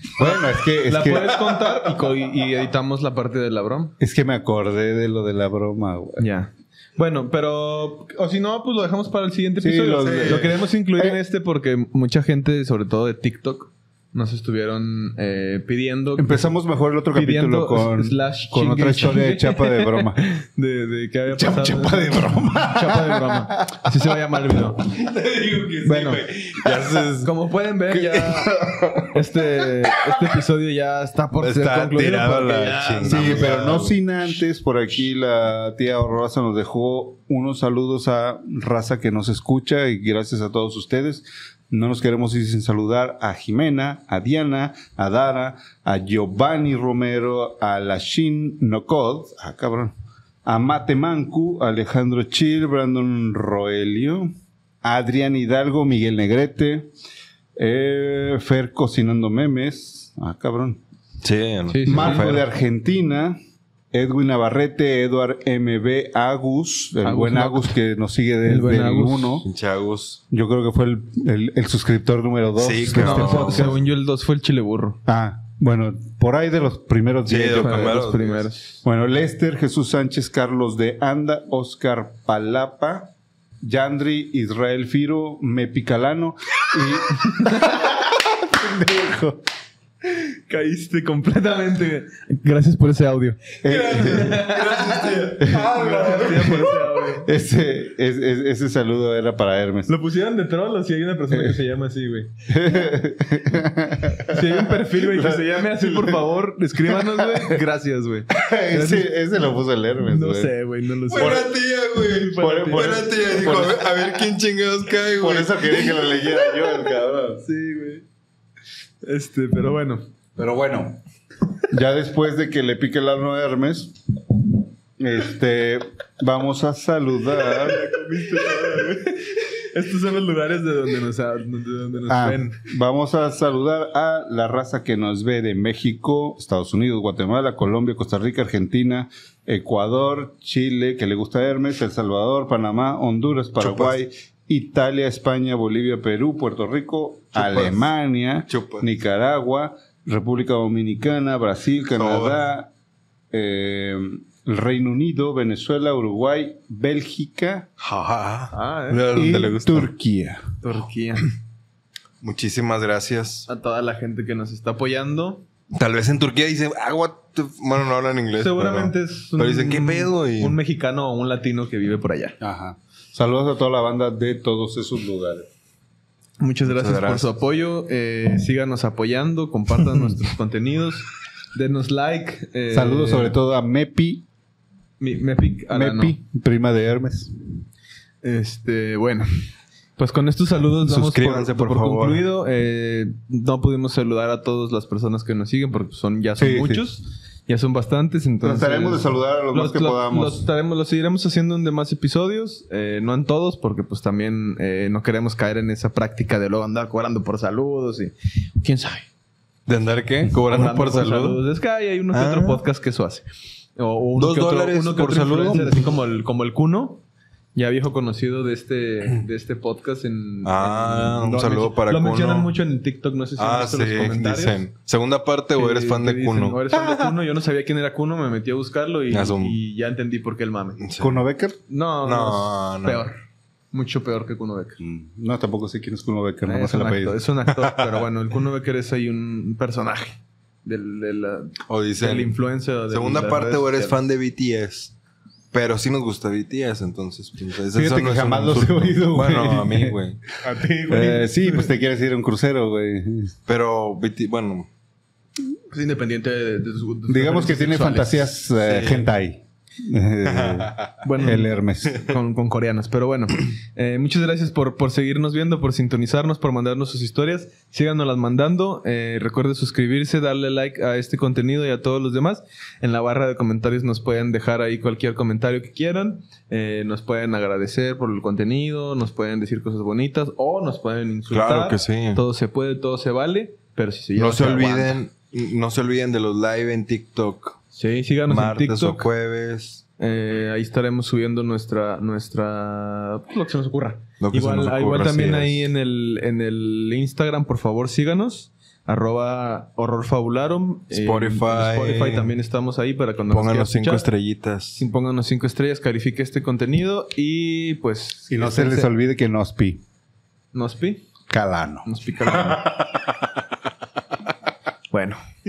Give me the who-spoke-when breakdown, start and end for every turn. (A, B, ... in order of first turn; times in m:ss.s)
0:00.2-0:01.4 A
0:00.9-0:03.9 B
0:04.0-0:06.2 A
0:06.2-0:16.5 B
0:09.6-0:11.2 A
0:10.0-0:10.6 C
0:16.2-0:20.2 A
0:17.1-0:24.9 B
0:21.3-0:23.9 A
0:24.8-0:27.3 C
0:25.8-0:26.2 B
0:27.2-0:28.5 B
0:28.2-0:29.0 A
0:28.3-0:29.1 C
0:29.0-0:33.6 B
0:31.4-0:33.9 C
0:33.0-0:56.9 A
0:57.6-1:00.8 A
1:01.2-1:02.4 C
1:01.7-1:02.2 B
1:01.9-1:03.4 A
1:03.9-1:09.5 A
1:07.0-1:07.7 B
1:08.4-1:09.4 B
1:09.4-1:10.2 C
1:10.3-1:13.8 A
1:12.6-1:13.8 C
1:12.9-1:15.0 B
1:15.0-1:18.0 A
1:17.2-1:18.5 C
1:17.6-1:18.8 B
1:18.8-1:29.4 A
1:30.1-1:37.3 B
1:33.6-1:34.5 A
1:33.7-1:36.6 C
1:35.4-1:39.9 A
1:39.9-1:42.3 B
1:41.3-1:41.6 A
1:42.5-1:46.2 A
1:44.3-1:49.1 B
1:46.8-1:47.6 A
1:48.3-1:50.5 A
1:50.1-1:53.3 B
1:51.1-1:55.9 C
1:51.1-1:51.5 A
1:52.4-1:53.9 A
1:55.2-1:57.4 A
1:57.4-1:58.0 B
1:59.0-2:00.0 B
2:00.4-2:01.0 A
2:01.7-2:07.8 A
2:07.4-2:12.6 B
2:12.1-2:32.7 A
2:23.6-2:23.9 C
2:27.3-2:27.9 C
2:28.5-2:28.9 C
2:32.0-2:32.4 C
2:33.3-2:37.7 A
2:37.8-2:39.9 C
2:38.5-2:39.3 B
2:39.1-2:40.4 A
2:40.6-2:41.3 B
2:42.2-2:43.5 C
2:43.5-2:45.4 B
2:45.7-2:50.6 C
2:48.4-2:52.4 B
2:52.4-2:55.5 A
2:56.4-3:03.4 B
2:56.6-2:57.4 C
3:02.7-3:04.2 A
3:05.0-3:06.2 B
3:05.7-3:07.4 A
3:08.2-3:29.1 B
3:10.7-3:12.2 C
3:16.4-3:16.8 A
3:18.4-3:20.4 A
3:29.7-3:31.4 C
3:30.4-3:37.0 B
3:32.1-3:32.6 C
3:34.2-3:35.9 C
3:37.5-3:44.6 B
3:40.4-3:42.5 C
3:43.4-3:47.2 C
3:45.5-3:50.8 B
3:49.1-3:49.6 C
3:50.8-3:51.2 C
3:51.0-3:51.6 A
3:51.7-3:53.2 B
3:52.0-3:53.0 C
3:53.7-3:54.8 B
3:54.8-3:57.2 A
3:56.4-4:04.0 B
4:01.7-4:02.4 C
4:02.9-4:04.9 C
4:05.5-4:10.2 C
4:07.7-4:10.0 A
4:10.4-4:11.7 B
4:10.9-4:13.3 A
4:13.5-4:14.7 C
4:15.7-4:18.3 B
4:17.1-4:22.1 A
4:18.6-4:19.1 C
4:20.2-4:21.0 C
4:21.0-4:45.0 B
4:41.3-4:42.2 C
4:44.2-4:47.6 C
4:47.7-4:49.1 B
4:48.3-4:49.8 C
4:50.0-5:04.0 B
4:54.2-4:55.6 C
5:00.9-5:02.3 C
5:03.3-5:04.8 C
5:04.7-5:08.9 B
5:08.3-5:09.8 A
5:10.5-5:11.0 B
5:11.3-5:11.9 A
5:11.8-5:12.7 B
5:14.9-5:15.2 B